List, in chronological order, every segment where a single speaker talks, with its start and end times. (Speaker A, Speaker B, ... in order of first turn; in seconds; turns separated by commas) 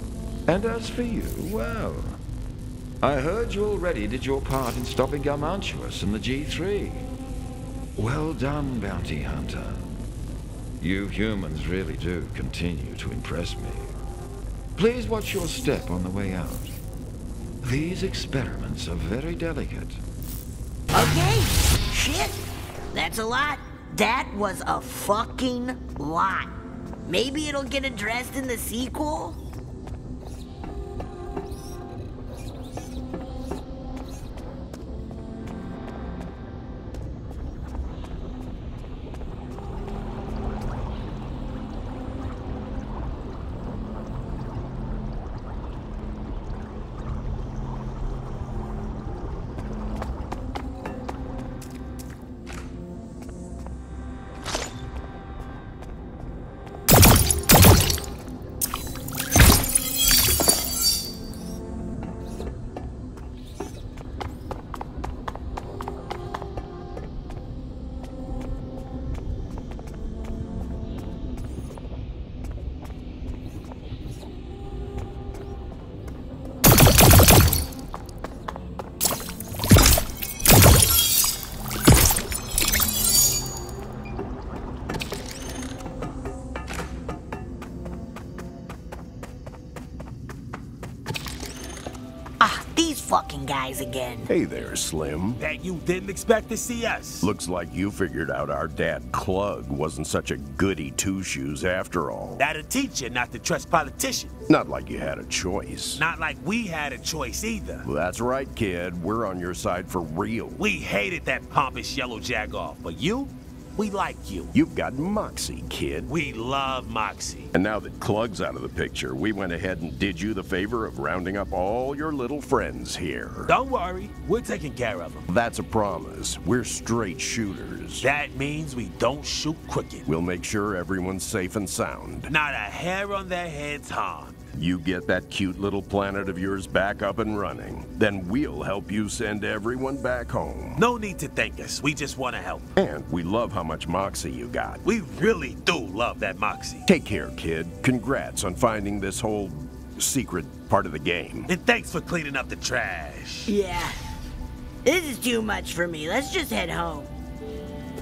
Speaker A: 0.5-2.2, Speaker A: 3.0-7.1, Speaker A: 8.0-9.9, Speaker A: 10.8-13.9, Speaker A: 14.8-16.8, Speaker A: 17.6-20.0, Speaker B: 20.9-22.4, Speaker B: 22.9-26.5, Speaker B: 27.1-29.4, Speaker B: 92.4-94.3, Speaker C: 94.3-95.4, Speaker D: 95.4-97.3, Speaker C: 97.2-102.4, Speaker D: 102.4-104.3, Speaker C: 104.5-106.0, Speaker D: 106.0-107.9, Speaker C: 107.8-110.6, Speaker D: 110.6-114.5, Speaker C: 114.5-116.1, Speaker D: 116.1-117.5, Speaker C: 117.5-123.5, Speaker D: 123.5-125.3, Speaker C: 125.3-128.1, Speaker D: 128.0-130.1, Speaker C: 130.1-132.3, Speaker D: 132.3-134.4, Speaker C: 134.5-140.8, Speaker D: 140.8-142.7, Speaker C: 142.8-144.8, Speaker D: 144.8-146.9, Speaker C: 146.9-151.5, Speaker D: 151.5-153.6, Speaker B: 153.5-154.2, Speaker B: 154.8-157.1